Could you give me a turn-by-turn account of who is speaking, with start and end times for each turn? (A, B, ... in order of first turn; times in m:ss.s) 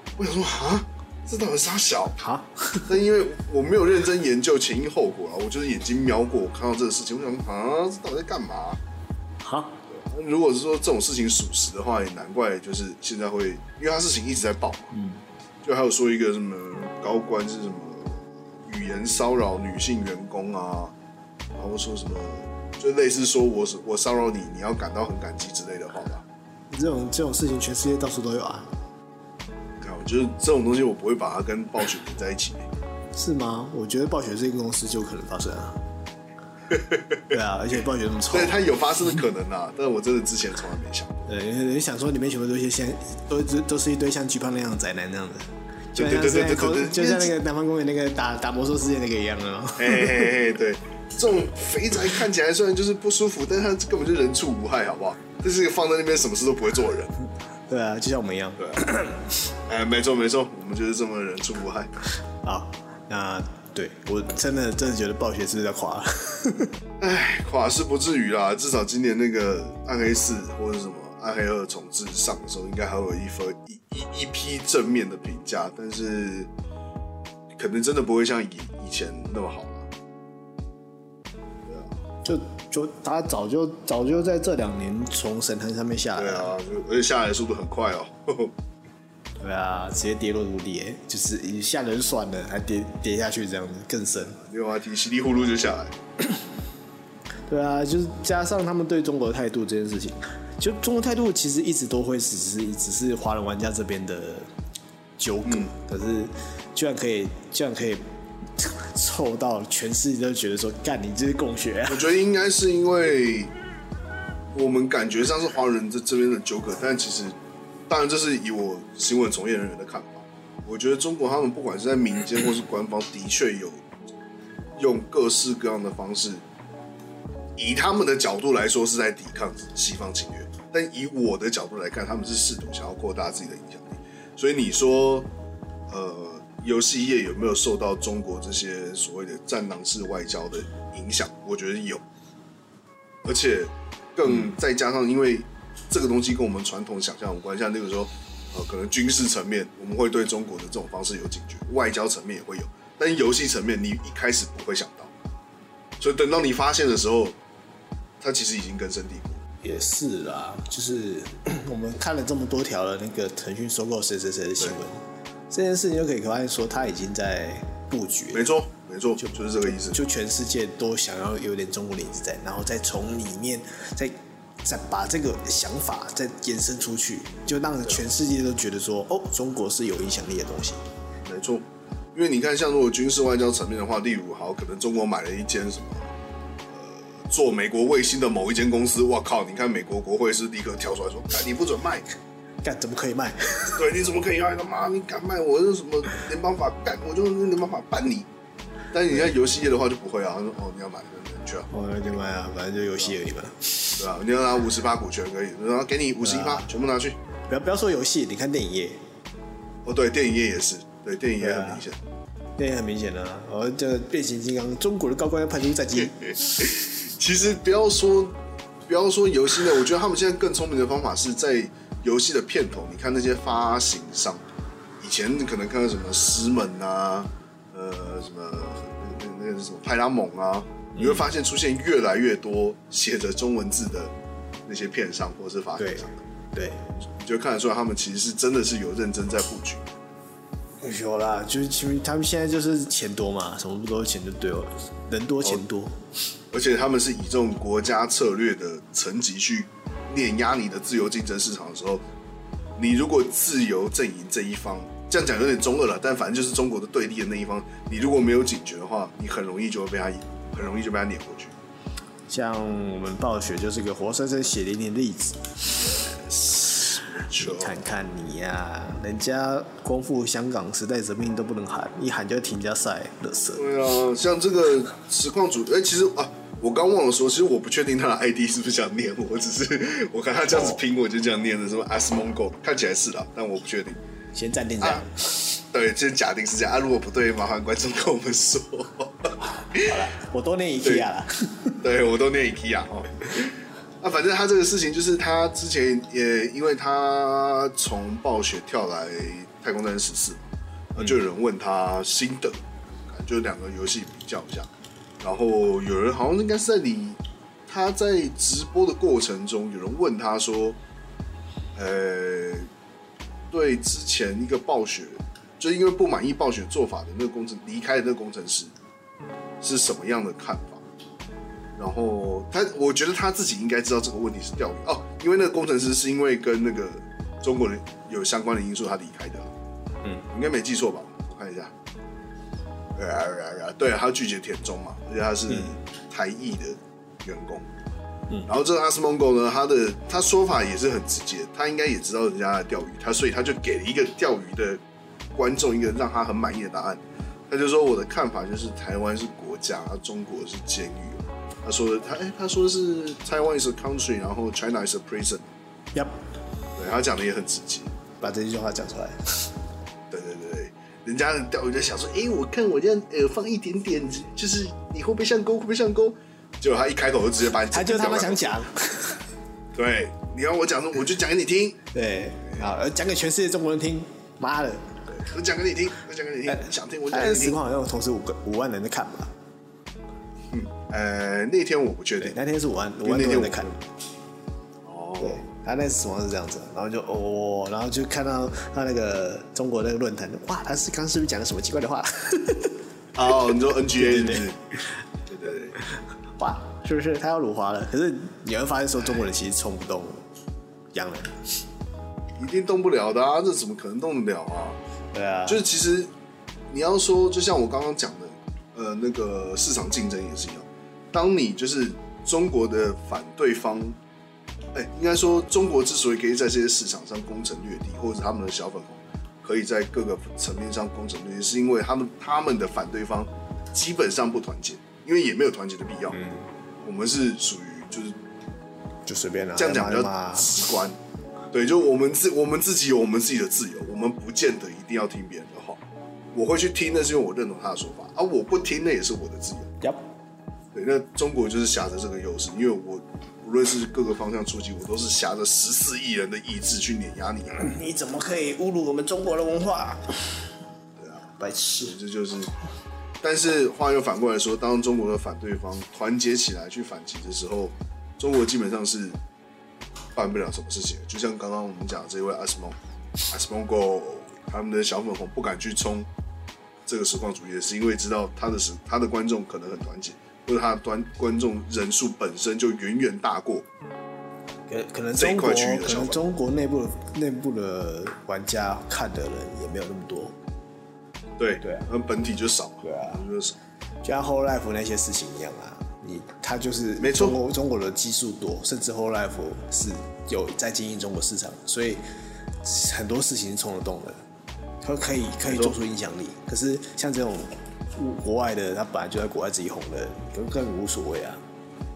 0:00.2-0:02.2 A
0:02.2-0:02.9 B
0:02.9-0:08.8 A
0:09.4-0:09.8 B
0:09.9-0:14.9 A
0:14.9-0:15.2 B
0:15.6-0:20.9 A
0:21.5-0:26.2 A
0:26.7-0:28.7 B
0:29.8-0:32.7 A
0:33.1-0:35.8 B
0:36.7-0:37.2 A
0:37.3-0:38.6 B
0:38.3-0:41.1 A
0:41.3-0:50.3 B
0:46.0-0:47.3 A
0:49.8-0:57.1 A
0:57.7-0:59.3 B
0:59.7-1:01.9 A
1:02.4-1:06.7 B
1:07.0-1:16.5 A
1:17.6-1:19.9 A
1:21.7-1:22.0 A
1:22.2-1:26.5 B
1:26.2-1:28.5 A
1:29.4-1:34.4 B
1:34.4-1:35.9 A
1:37.5-1:44.5 B
1:45.2-1:48.0 B
1:45.5-1:45.7 A
1:48.6-1:52.1 B
1:51.9-1:53.5 A
1:54.5-1:57.4 A
1:57.9-2:03.8 A
2:04.8-2:06.4 A
2:07.6-2:15.3 A
2:15.9-2:22.0 A
2:23.2-2:35.1 A
2:36.0-2:37.4 A
2:38.2-2:39.4 A
2:39.6-2:48.5 B
2:48.3-2:50.0 A
2:49.2-3:00.8 B
3:01.2-3:06.1 A
3:06.7-3:12.1 A
3:12.6-3:13.8 B
3:13.8-3:18.3 A
3:18.9-3:21.7 A
3:21.7-3:24.0 B
3:24.0-3:27.2 A
3:26.2-3:26.7 B
3:27.5-3:29.0 B
3:29.8-3:32.0 A
3:31.4-3:31.8 B
3:32.6-3:36.7 B
3:36.2-3:44.4 A
3:45.0-3:54.1 A
3:51.0-3:51.3 B
3:54.7-3:56.1 A
3:55.8-3:56.8 B
3:57.0-3:59.9 A
4:00.8-4:06.0 B
4:06.5-4:12.0 A
4:12.8-4:21.5 A
4:22.3-4:25.6 B
4:25.8-4:27.8 A
4:27.3-4:33.6 B
4:33.6-4:44.0 A
4:40.5-4:40.8 B
4:44.3-4:45.1 B
4:44.8-4:50.0 A
4:49.6-4:51.8 B
4:51.8-5:04.7 A
5:05.2-5:10.8 A
5:11.8-5:12.7 A
5:13.5-5:18.7 A
5:19.6-5:20.8 A
5:21.8-5:29.5 A
5:30.3-5:31.7 A
5:33.0-5:37.7 A
5:35.5-5:35.7 B
5:38.5-5:44.8 A
5:45.4-5:55.5 A
5:56.8-5:57.9 A
5:58.2-5:59.2 B
6:00.1-6:08.7 A
6:07.7-6:09.2 B
6:09.7-6:11.8 A
6:11.9-6:15.0 B
6:15.1-6:17.6 A
6:16.5-6:19.3 B
6:20.5-6:22.4 A
6:22.2-6:23.7 B
6:23.0-6:23.8 A
6:24.8-6:25.4 A
6:25.2-6:32.8 B
6:33.2-6:34.6 A
6:33.9-6:34.5 B
6:35.3-6:35.8 A
6:36.4-6:40.2 B
6:40.9-6:41.4 B
6:42.4-6:44.8 A
6:45.1-6:45.6 B
6:45.5-6:46.1 A
6:46.7-6:54.0 A
6:54.7-7:06.2 A
7:06.1-7:06.5 B
7:06.8-7:08.2 A
7:09.1-7:10.5 B
7:09.6-7:11.0 A
7:11.5-7:15.8 A
7:16.3-7:19.7 A
7:20.7-7:27.7 A
7:27.6-7:30.2 B
7:31.0-7:32.5 A
7:31.4-7:32.0 B
7:33.2-7:39.2 A
7:40.2-7:42.8 A
7:43.3-7:46.1 A
7:46.9-7:53.7 A
7:54.7-8:00.4 B
7:55.2-7:56.3 A
8:01.4-8:03.6 A
8:01.6-8:01.9 B
8:02.8-8:03.2 B
8:04.0-8:12.0 B
8:07.0-8:07.4 A
8:12.6-8:14.2 B
8:14.8-8:21.4 B
8:15.5-8:15.8 A